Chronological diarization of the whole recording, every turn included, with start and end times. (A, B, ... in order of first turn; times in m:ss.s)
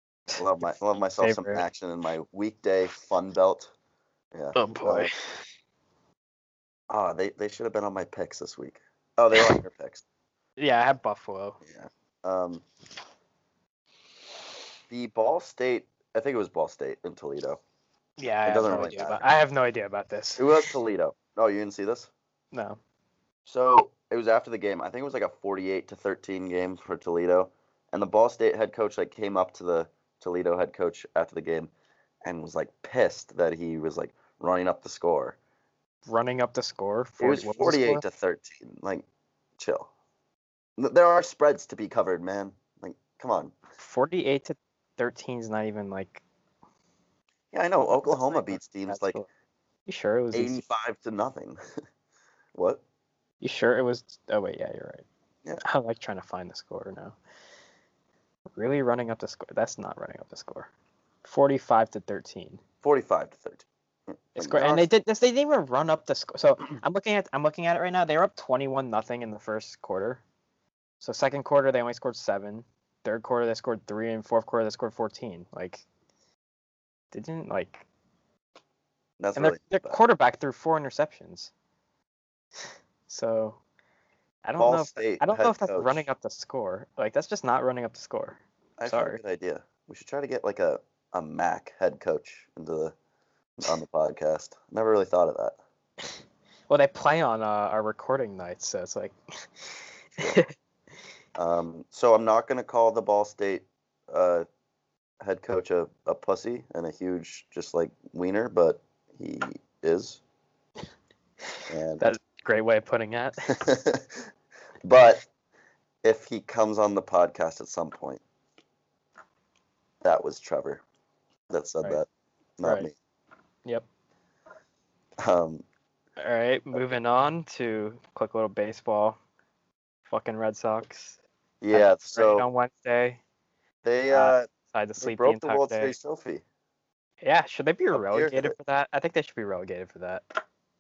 0:00.4-0:03.7 A
0:01.2-0:01.6 B
0:04.3-0:05.1 A
0:04.5-0:05.4 B
0:06.9-0:10.0 A
0:10.6-0:11.6 B
0:11.6-0:12.6 A
0:14.9-0:17.6 A
0:18.2-0:20.7 B
0:18.4-0:19.2 A
0:20.4-0:22.1 A
0:22.5-0:22.8 B
0:23.5-0:31.7 A
0:32.2-0:35.4 A
0:36.0-0:38.0 B
0:37.2-0:39.0 A
0:39.6-0:39.9 A
0:40.8-0:43.5 A
0:43.8-0:46.2 B
0:47.5-0:49.2 A
0:47.8-0:49.3 B
0:49.9-0:50.6 B
0:50.3-0:51.6 A
0:52.5-0:52.8 A
0:53.4-0:55.0 B
0:55.6-0:57.2 B
0:58.5-1:00.7 B
1:01.2-1:02.6 B
1:02.8-1:04.9 A
1:04.4-1:10.2 B
1:11.0-1:15.8 B
1:17.1-1:17.8 B
1:19.2-1:20.0 A
1:19.4-1:21.5 B
1:23.1-1:23.6 B
1:24.4-1:29.2 B
1:24.6-1:26.0 A
1:28.8-1:32.9 A
1:33.6-1:35.6 A
1:36.7-1:40.5 B
1:41.4-1:44.4 A
1:45.2-1:50.2 A
1:51.7-1:52.1 A
1:52.0-1:53.5 B
1:53.5-1:54.3 A
1:54.8-1:55.2 A
1:56.0-1:58.2 A
2:00.0-2:00.8 A
2:01.5-2:02.9 A
2:02.6-2:02.9 B
2:05.2-2:05.6 A
2:06.2-2:09.2 B
2:10.1-2:11.2 B
2:11.6-2:12.4 A
2:11.7-2:13.2 B
2:13.8-2:14.5 A
2:14.1-2:15.9 B
2:15.0-2:16.4 A
2:17.2-2:20.4 B
2:17.9-2:18.5 A